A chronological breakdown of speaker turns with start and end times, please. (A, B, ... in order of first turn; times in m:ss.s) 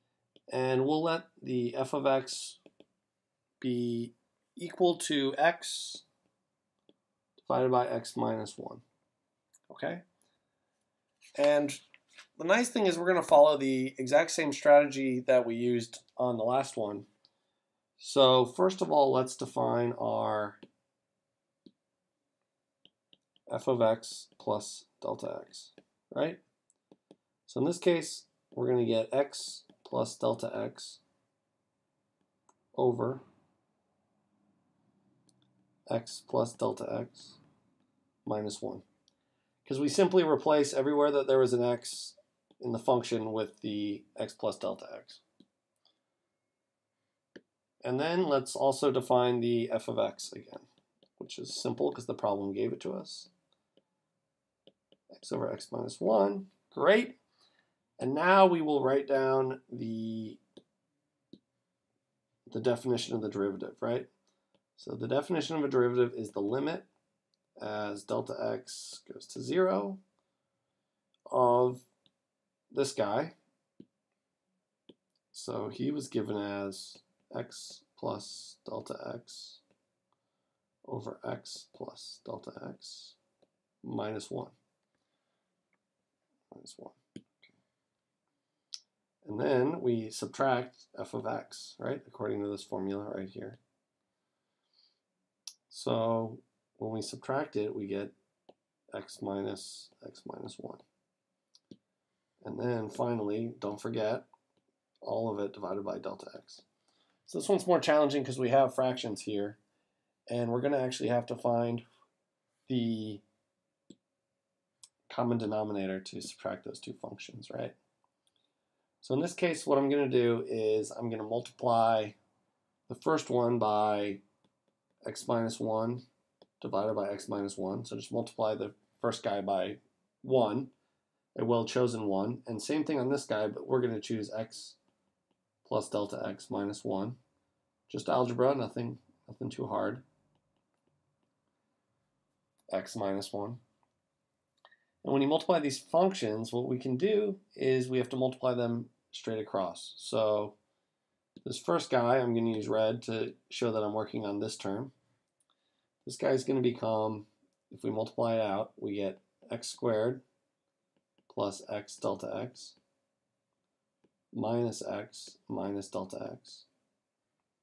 0:00.5-0:02.6 A
0:03.6-0:06.0 A
0:07.4-0:08.8 A
0:09.7-0:10.0 A
0:11.4-0:11.8 A
0:12.4-0:17.1 A
0:18.0-0:20.6 A
0:23.5-0:26.4 A
0:27.5-0:31.0 A
0:32.7-0:33.2 A
0:35.9-0:37.4 A
0:38.2-0:38.8 A
0:39.6-0:45.2 A
0:47.8-0:50.7 A
0:51.2-0:53.3 A
0:55.1-0:57.2 A
0:58.0-1:00.4 A
1:02.5-1:04.1 A
1:04.8-1:06.9 A
1:07.6-1:10.0 A
1:11.3-1:11.9 A
1:12.7-1:13.4 A
1:15.3-1:19.6 A
1:20.8-1:23.2 A
1:23.8-1:24.6 A
1:26.5-1:27.6 A
1:29.2-1:33.6 A
1:35.7-1:38.1 A
1:38.9-1:40.8 A
1:42.4-1:44.3 A
1:45.0-1:46.6 A
1:47.2-1:49.6 A
1:50.3-1:51.8 A
1:52.7-1:53.2 A
1:55.1-1:57.8 A
1:59.0-2:02.2 A
2:02.9-2:04.2 A
2:05.0-2:06.0 A
2:06.6-2:10.7 A
2:11.4-2:14.8 A
2:15.6-2:17.2 A
2:17.9-2:20.0 A
2:22.7-2:23.6 A
2:25.0-2:30.6 A
2:31.4-2:34.9 A
2:36.0-2:40.2 A
2:41.3-2:42.8 A
2:44.3-2:46.7 A